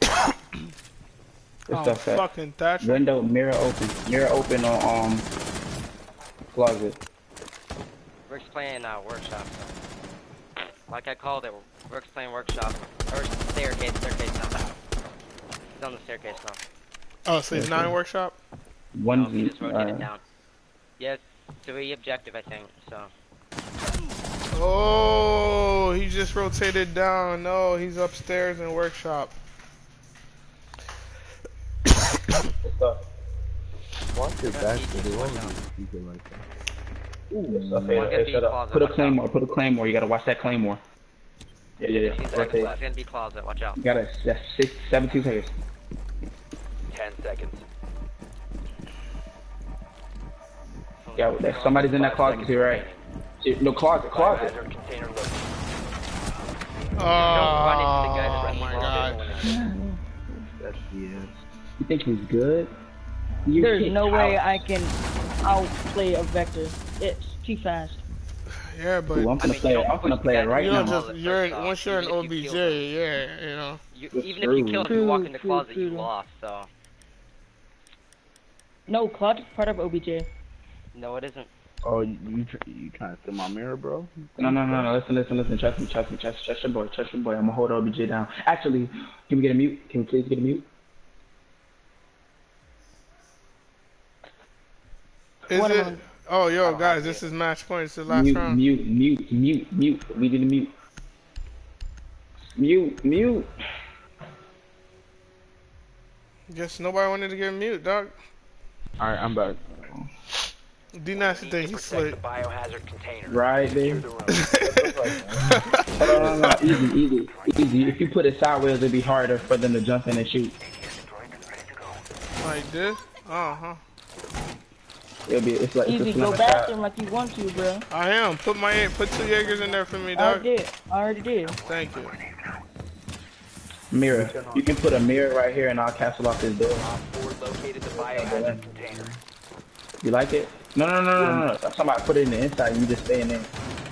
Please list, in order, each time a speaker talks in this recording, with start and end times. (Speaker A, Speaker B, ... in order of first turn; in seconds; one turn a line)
Speaker A: 1.7-3.0
Speaker B: 1.7-2.3
Speaker B: 2.8-5.3
Speaker B: 6.5-7.0
Speaker C: 8.3-9.8
Speaker C: 10.9-14.8
Speaker C: 15.7-16.6
Speaker A: 17.2-18.4
Speaker B: 17.5-17.9
Speaker D: 17.6-17.9
Speaker B: 18.9-20.1
Speaker C: 19.1-20.2
Speaker C: 21.0-23.1
Speaker A: 24.5-29.3
Speaker B: 32.6-33.0
Speaker D: 34.1-36.4
Speaker C: 34.5-35.6
Speaker D: 37.3-38.2
Speaker B: 37.5-40.8
Speaker C: 37.9-39.2
Speaker B: 41.8-42.7
Speaker E: 41.9-43.0
Speaker C: 42.0-43.8
Speaker B: 43.8-45.5
Speaker E: 46.9-47.6
Speaker C: 51.0-52.7
Speaker B: 51.1-52.9
Speaker E: 51.5-53.0
Speaker B: 53.4-54.5
Speaker E: 54.1-55.5
Speaker A: 56.9-59.5
Speaker E: 57.1-59.7
Speaker C: 57.3-59.6
Speaker F: 59.5-60.0
Speaker D: 60.6-61.3
Speaker B: 61.8-62.7
Speaker B: 63.4-64.6
Speaker F: 63.6-68.0
Speaker A: 68.7-69.4
Speaker B: 69.1-71.0
Speaker C: 69.4-72.8
Speaker A: 70.5-73.8
Speaker C: 73.9-76.7
Speaker B: 74.1-75.0
Speaker F: 74.9-76.1
Speaker F: 78.9-80.3
Speaker C: 80.9-81.5
Speaker D: 81.8-84.9
Speaker B: 84.4-90.6
Speaker A: 95.5-98.6
Speaker F: 95.5-96.0
Speaker C: 96.6-97.3
Speaker B: 98.1-100.7
Speaker B: 102.5-103.5
Speaker A: 106.5-108.1
Speaker D: 109.0-109.6
Speaker B: 109.8-110.1
Speaker A: 111.0-112.2
Speaker E: 111.1-114.7
Speaker B: 113.3-114.1
Speaker A: 114.3-116.0
Speaker D: 114.6-116.5
Speaker B: 116.0-120.5
Speaker E: 117.2-118.0
Speaker E: 120.6-122.0
Speaker A: 122.4-123.8
Speaker B: 125.3-126.7
Speaker F: 125.8-127.8
Speaker A: 127.9-130.5
Speaker F: 130.1-131.6
Speaker E: 131.4-132.6
Speaker A: 131.6-132.2
Speaker B: 133.9-136.9
Speaker D: 134.1-134.7
Speaker E: 136.8-139.1
Speaker B: 137.9-138.6
Speaker D: 138.0-139.2
Speaker B: 140.0-143.5
Speaker D: 141.2-141.5